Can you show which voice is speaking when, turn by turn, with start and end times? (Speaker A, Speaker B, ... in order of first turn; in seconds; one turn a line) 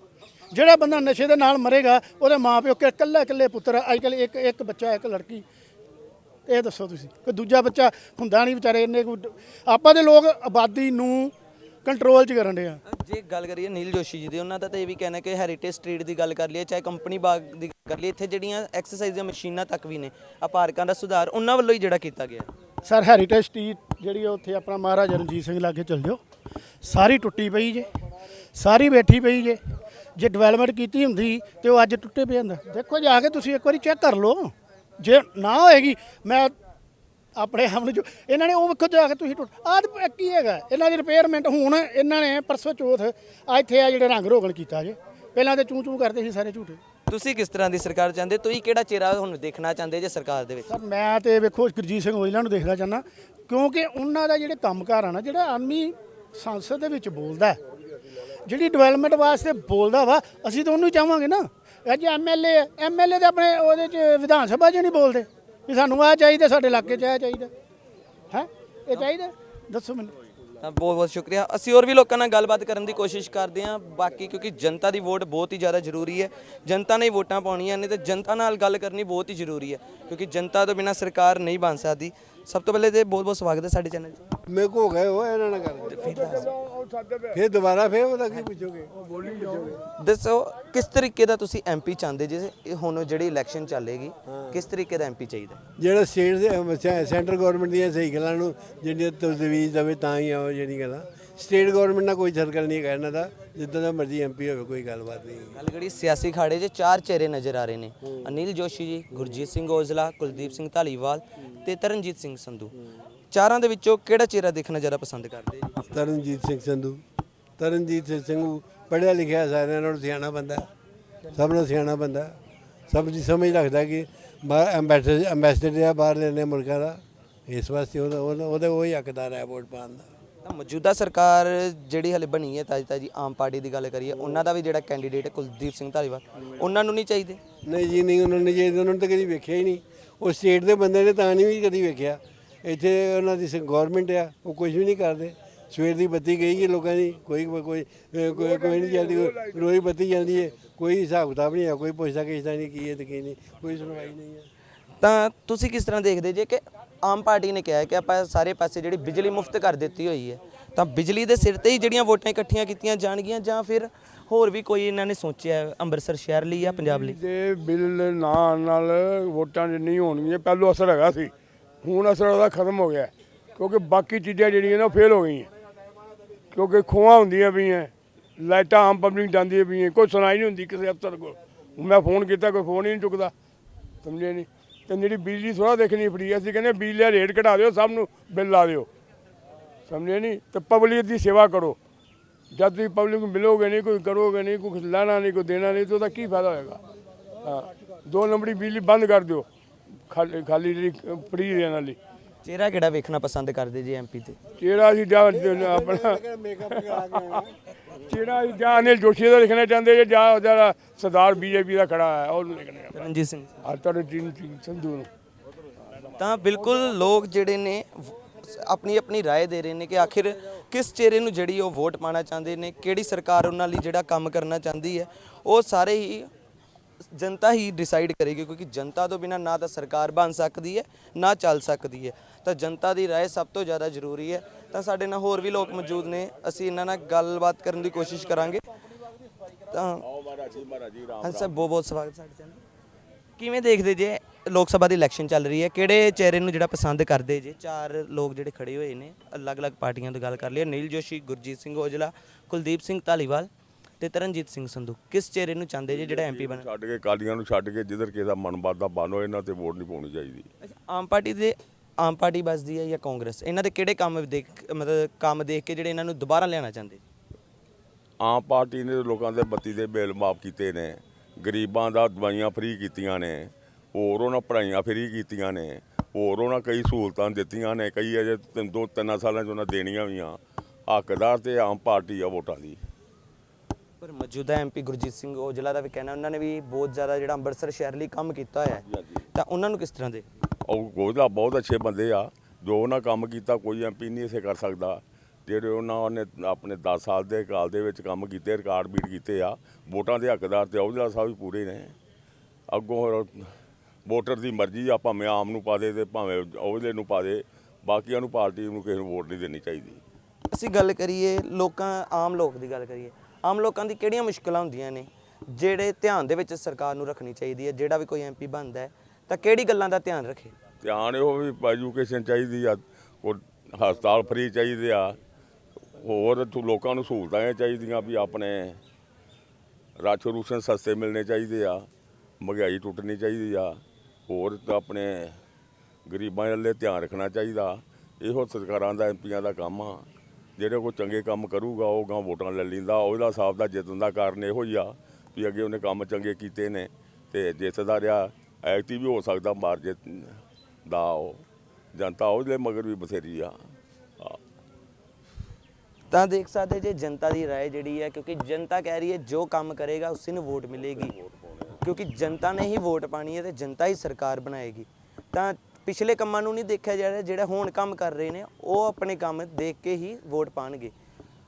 Speaker A: 0.5-5.4
Speaker A: 6.5-11.3
Speaker A: 11.8-12.8
Speaker B: 12.9-22.5
Speaker A: 22.8-26.2
Speaker A: 26.8-27.9
Speaker A: 28.5-29.6
Speaker A: 30.1-36.5
Speaker A: 37.4-46.8
Speaker B: 47.1-50.7
Speaker A: 50.7-57.6
Speaker A: 58.5-67.5
Speaker A: 68.3-70.1
Speaker B: 70.6-84.2
Speaker C: 84.5-86.5
Speaker B: 85.9-86.5
Speaker C: 87.3-89.8
Speaker B: 90.0-95.6
Speaker C: 94.3-94.6
Speaker C: 95.8-105.5
Speaker B: 105.5-112.7
Speaker B: 113.3-115.8
Speaker C: 115.9-117.0
Speaker C: 117.6-120.7
Speaker C: 121.3-122.4
Speaker C: 122.9-130.1
Speaker B: 130.4-137.4
Speaker C: 137.7-154.5
Speaker B: 155.0-167.2
Speaker D: 166.6-171.3
Speaker D: 171.8-175.5
Speaker D: 176.5-183.3
Speaker D: 184.0-188.9
Speaker D: 189.9-191.8
Speaker D: 192.5-196.8
Speaker D: 197.4-199.4
Speaker D: 200.1-202.0
Speaker B: 202.4-204.4
Speaker D: 204.6-206.2
Speaker C: 205.2-207.5
Speaker D: 206.7-207.2
Speaker D: 208.1-213.0
Speaker B: 212.9-213.6
Speaker D: 213.6-215.1
Speaker B: 216.2-226.3
Speaker B: 227.1-238.7
Speaker B: 239.7-240.0
Speaker E: 240.0-241.7
Speaker B: 241.2-242.6
Speaker B: 243.4-253.5
Speaker B: 254.0-256.7
Speaker E: 255.9-260.5
Speaker B: 260.6-267.0
Speaker E: 268.2-282.8
Speaker B: 284.0-290.2
Speaker E: 288.8-289.2
Speaker E: 290.6-301.9
Speaker E: 302.7-303.5
Speaker E: 304.1-310.0
Speaker B: 310.5-320.5
Speaker E: 320.8-325.2
Speaker E: 326.0-328.8
Speaker E: 330.0-331.9
Speaker E: 332.4-335.4
Speaker E: 336.1-353.6
Speaker B: 356.1-361.2
Speaker E: 360.9-361.8
Speaker B: 361.8-370.9